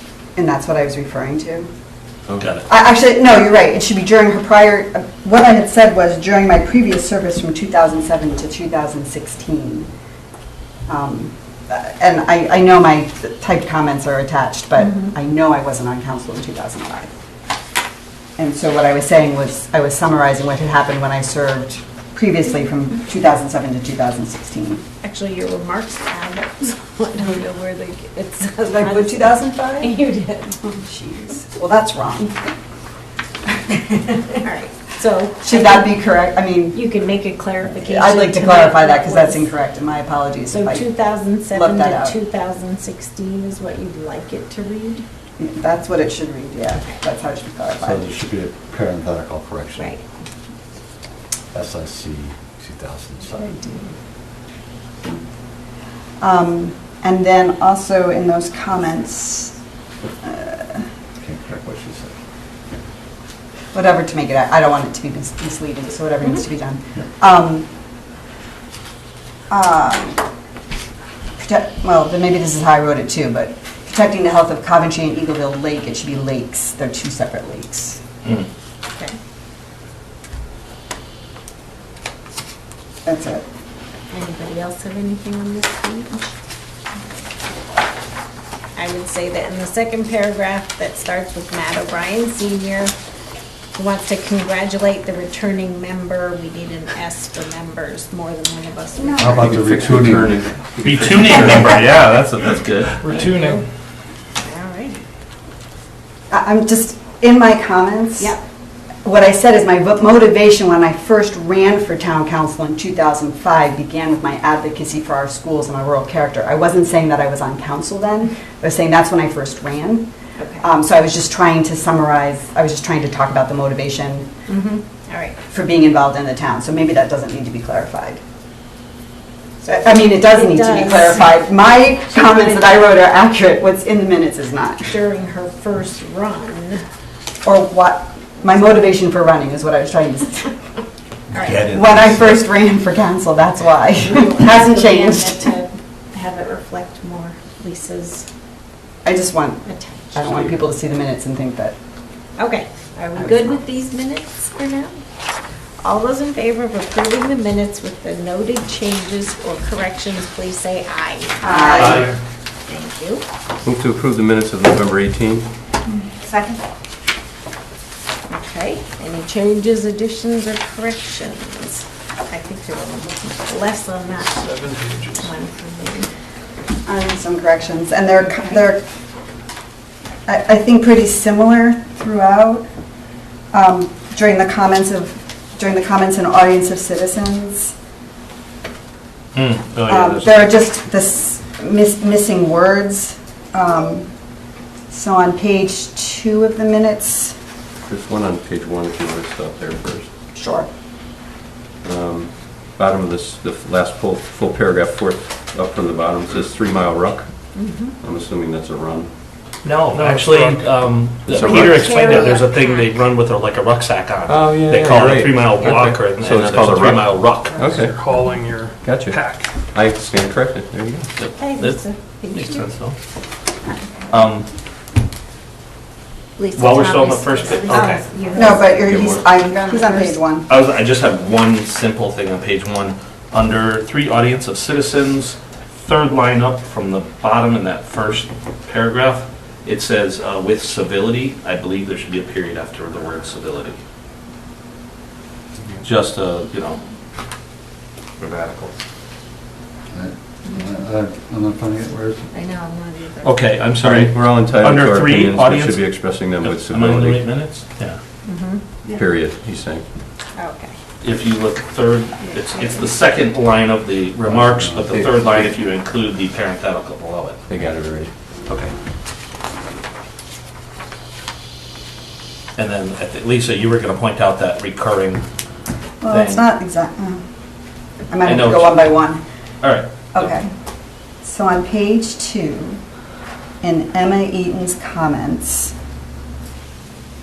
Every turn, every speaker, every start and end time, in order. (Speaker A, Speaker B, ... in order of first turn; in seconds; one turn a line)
Speaker A: 0.3-1.7
Speaker B: 2.4-2.7
Speaker A: 2.7-9.9
Speaker A: 10.9-17.1
Speaker C: 14.8-15.1
Speaker A: 18.4-24.8
Speaker C: 25.0-30.6
Speaker A: 28.7-29.9
Speaker A: 30.6-32.3
Speaker C: 34.4-36.0
Speaker A: 35.4-36.8
Speaker C: 36.7-39.5
Speaker A: 37.7-40.9
Speaker C: 40.5-45.0
Speaker A: 41.5-42.2
Speaker A: 45.4-48.2
Speaker D: 47.8-50.0
Speaker C: 49.8-50.0
Speaker D: 51.5-53.4
Speaker C: 53.3-53.8
Speaker A: 56.2-59.5
Speaker A: 60.2-60.9
Speaker D: 61.2-62.1
Speaker A: 63.7-67.7
Speaker A: 69.5-70.2
Speaker A: 71.4-78.0
Speaker A: 83.0-83.5
Speaker C: 84.1-86.3
Speaker C: 88.7-92.9
Speaker C: 93.8-99.5
Speaker A: 99.0-100.0
Speaker D: 99.2-100.4
Speaker E: 99.4-101.9
Speaker B: 100.8-103.0
Speaker F: 103.0-103.6
Speaker C: 103.0-103.6
Speaker C: 104.4-105.0
Speaker A: 106.3-108.4
Speaker A: 109.0-120.1
Speaker C: 120.4-120.7
Speaker A: 120.6-124.3
Speaker C: 124.5-125.4
Speaker A: 125.5-128.2
Speaker C: 129.6-133.0
Speaker A: 129.6-134.9
Speaker C: 134.8-136.8
Speaker A: 137.4-140.5
Speaker C: 141.3-141.7
Speaker A: 141.6-145.5
Speaker C: 144.1-148.2
Speaker A: 149.0-151.7
Speaker C: 149.6-150.1
Speaker C: 152.4-154.9
Speaker C: 155.8-162.1
Speaker A: 161.4-162.1
Speaker B: 161.8-162.1
Speaker C: 162.7-163.2
Speaker E: 163.6-165.5
Speaker A: 165.9-166.6
Speaker C: 168.3-174.4
Speaker F: 174.3-175.3
Speaker C: 175.2-176.1
Speaker A: 176.8-178.8
Speaker A: 180.2-182.7
Speaker A: 183.5-187.7
Speaker B: 189.3-190.5
Speaker A: 189.9-194.1
Speaker A: 194.9-197.3
Speaker E: 197.8-200.1
Speaker A: 200.3-200.7
Speaker E: 201.8-209.1
Speaker C: 207.5-207.9
Speaker B: 209.6-217.7
Speaker F: 209.9-210.6
Speaker E: 211.3-212.2
Speaker C: 211.4-213.1
Speaker E: 214.2-218.0
Speaker F: 217.7-219.4
Speaker E: 218.8-219.2
Speaker E: 219.7-221.1
Speaker B: 221.2-222.9
Speaker C: 221.4-222.7
Speaker B: 224.1-224.5
Speaker C: 226.4-230.2
Speaker B: 226.6-228.0
Speaker A: 228.3-230.5
Speaker E: 228.8-229.3
Speaker B: 230.5-243.8
Speaker B: 245.8-246.8
Speaker B: 248.2-248.7
Speaker D: 249.9-252.3
Speaker C: 252.3-253.4
Speaker B: 253.2-258.0
Speaker E: 253.8-257.3
Speaker C: 258.2-259.0
Speaker E: 258.8-259.8
Speaker C: 260.4-260.8
Speaker B: 261.0-267.4
Speaker C: 262.2-262.9
Speaker D: 264.3-264.9
Speaker E: 264.9-265.5
Speaker E: 267.5-268.1
Speaker B: 268.5-268.7
Speaker B: 272.6-275.2
Speaker A: 276.0-277.2
Speaker B: 276.0-276.5
Speaker A: 278.1-279.2
Speaker B: 278.2-278.9
Speaker B: 279.6-280.3
Speaker A: 280.1-280.5
Speaker A: 281.2-282.8
Speaker A: 283.6-285.7